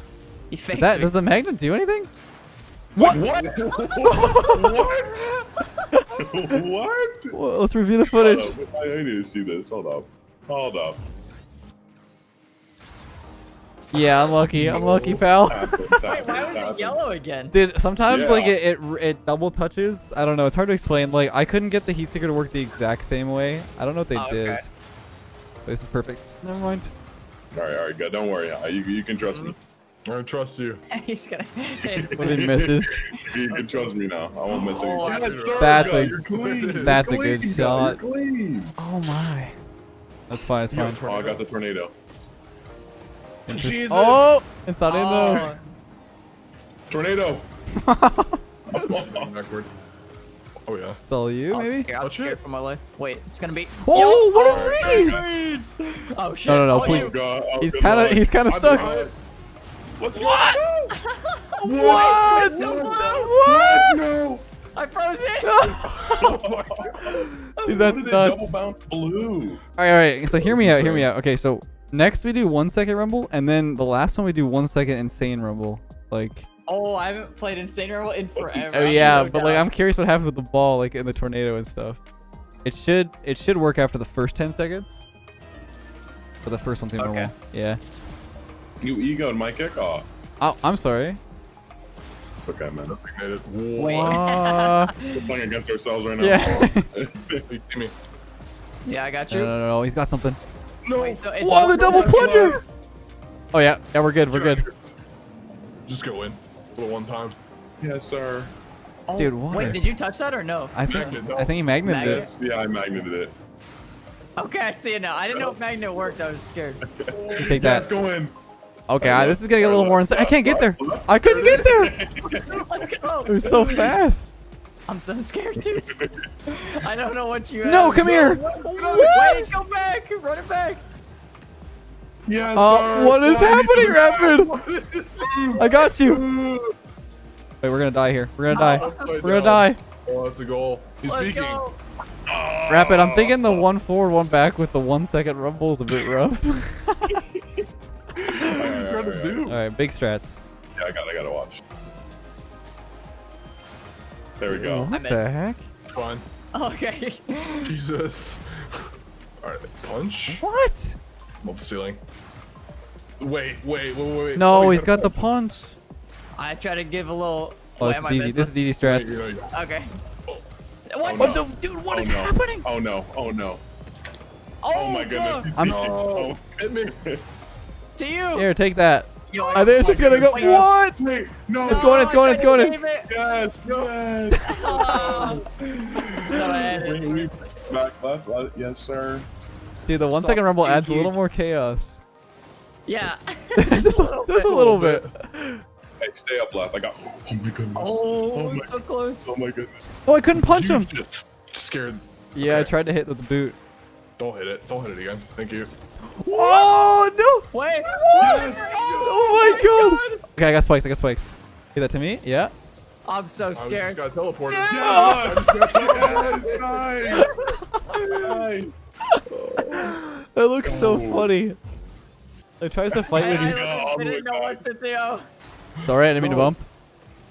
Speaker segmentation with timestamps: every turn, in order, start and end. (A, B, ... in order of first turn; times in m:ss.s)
0:00.5-0:01.2 A
0:00.7-0:02.1 B
0:03.0-0:04.0 C
0:03.0-0:05.3 D
0:04.0-0:04.8 B
0:06.1-0:07.3 D
0:07.3-0:08.5 B
0:08.0-0:11.0 D
0:13.9-0:15.9 B
0:14.5-0:15.2 C
0:14.5-0:17.0 D
0:16.0-0:17.5 A
0:17.5-0:24.6 B
0:18.0-0:18.6 D
0:24.1-0:24.6 A
0:25.6-0:26.9 B
0:27.5-0:29.6 D
0:30.0-0:30.8 C
0:30.9-0:32.5 A
0:31.9-0:38.7 D
0:32.2-0:32.9 B
0:33.4-0:33.9 A
0:34.6-0:35.8 A
0:34.6-0:37.0 C
0:35.5-0:36.2 B
0:36.8-0:38.0 B
0:38.8-0:39.6 B
0:40.3-0:41.0 B
0:40.7-0:41.4 C
0:41.0-0:41.9 D
0:43.5-0:44.3 C
0:43.5-0:45.5 B
0:44.8-0:45.7 A
0:46.9-0:47.5 D
0:47.8-0:48.4 B
0:48.7-0:49.3 D
0:48.9-0:49.7 C
0:50.6-0:51.0 C
0:51.0-0:51.9 B
0:51.5-0:57.1 A
0:52.0-0:52.4 C
0:53.8-0:55.2 B
0:54.4-0:55.2 D
0:56.4-0:59.0 B
0:56.7-0:59.1 D
0:58.5-0:59.1 C
1:00.0-1:00.9 C
1:00.1-1:00.6 B
1:00.9-1:03.3 A
1:01.6-1:04.0 B
1:01.6-1:04.4 D
1:04.7-1:05.8 A
1:05.4-1:06.4 B
1:06.1-1:07.0 D
1:06.2-1:06.7 C
1:07.5-1:07.9 A
1:07.6-1:08.5 B
1:07.7-1:09.6 D
1:09.8-1:16.4 B
1:10.3-1:11.1 D
1:16.7-1:19.7 A
1:18.4-1:19.5 D
1:18.7-1:22.0 B
1:22.6-1:25.0 B
1:26.4-1:27.8 B
1:27.0-1:27.3 A
1:28.8-1:30.1 D
1:30.4-1:31.2 B
1:32.4-1:33.0 D
1:32.9-1:34.3 C
1:33.8-1:34.9 B
1:33.8-1:35.2 A
1:35.0-1:37.4 D
1:36.2-1:36.9 B
1:37.5-1:37.9 C
1:38.8-1:39.5 A
1:39.3-1:40.4 B
1:40.8-1:42.6 C
1:40.9-1:42.6 A
1:41.4-1:42.6 B
1:42.2-1:42.6 D
1:43.5-1:44.6 B
1:44.3-1:44.7 D
1:45.8-1:47.4 C
1:47.8-1:48.5 D
1:49.1-1:51.1 A
1:49.2-1:49.9 B
1:50.7-1:52.2 B
1:50.9-1:51.7 C
1:51.8-1:52.3 A
1:51.8-1:53.3 D
1:54.4-1:56.8 A
1:55.3-1:56.1 D
1:56.9-1:58.3 D
1:57.1-1:57.9 C
1:57.4-1:57.9 B
1:58.9-2:02.0 B
1:59.0-2:02.5 D
2:01.2-2:02.8 C
2:02.5-2:03.4 A
2:03.2-2:04.3 B
2:04.9-2:05.9 A
2:05.8-2:06.2 D
2:06.5-2:10.8 A
2:07.6-2:09.6 B
2:08.1-2:09.1 C
2:12.2-2:14.3 D
2:12.5-2:14.5 B
2:13.3-2:16.7 C
2:15.2-2:15.9 D
2:15.6-2:16.3 B
2:17.6-2:19.8 B
2:18.5-2:21.6 C
2:18.5-2:19.2 A
2:21.0-2:21.8 A
2:22.3-2:23.7 D
2:22.7-2:27.2 B
2:28.3-2:29.6 C
2:28.4-2:29.4 D
2:29.4-2:30.4 B
2:30.8-2:31.6 D
2:34.4-2:34.9 D
2:34.4-2:35.6 B
2:34.9-2:35.3 A
2:35.9-2:36.2 C
2:36.5-2:37.7 A
2:37.6-2:40.4 C
2:40.3-2:41.0 B
2:41.4-2:42.0 C
2:43.2-2:45.2 C
2:44.4-2:45.7 B
2:46.4-2:48.7 A
2:47.8-2:49.2 B
2:48.8-2:49.5 C
2:49.5-2:49.9 A
2:50.9-2:51.4 A
2:51.0-2:53.6 D
2:51.2-2:52.6 B
2:54.6-2:55.5 A
2:54.7-2:57.2 D
2:55.5-2:56.0 B
2:55.6-2:56.9 C
2:58.0-2:58.5 A
2:58.3-3:01.0 B
2:59.3-3:00.7 A
3:00.2-3:02.2 D
3:01.6-3:02.8 B
3:01.6-3:03.1 A
3:03.0-3:09.3 D
3:04.4-3:07.3 A
3:04.6-3:05.4 C
3:09.9-3:12.0 B
3:10.0-3:11.1 A
3:12.8-3:14.5 A
3:13.6-3:15.6 B
3:14.5-3:15.1 C
3:16.0-3:19.8 D
3:17.8-3:19.3 A
3:20.0-3:20.9 B
3:20.3-3:22.7 C
3:22.3-3:23.6 B
3:24.2-3:25.7 C
3:26.2-3:27.4 B
3:27.5-3:30.2 A
3:28.1-3:29.1 D
3:28.1-3:29.4 C
3:29.0-3:32.5 B
3:33.0-3:35.2 A
3:33.5-3:36.9 C
3:34.7-3:37.3 D
3:34.8-3:35.5 B
3:37.9-3:38.5 A
3:38.1-3:38.8 D
3:39.3-3:40.0 D
3:39.7-3:41.6 B
3:40.6-3:41.3 D
3:42.6-3:43.6 B
3:42.9-3:44.6 D
3:43.1-3:45.2 A
3:45.8-3:46.5 C
3:45.8-3:46.6 B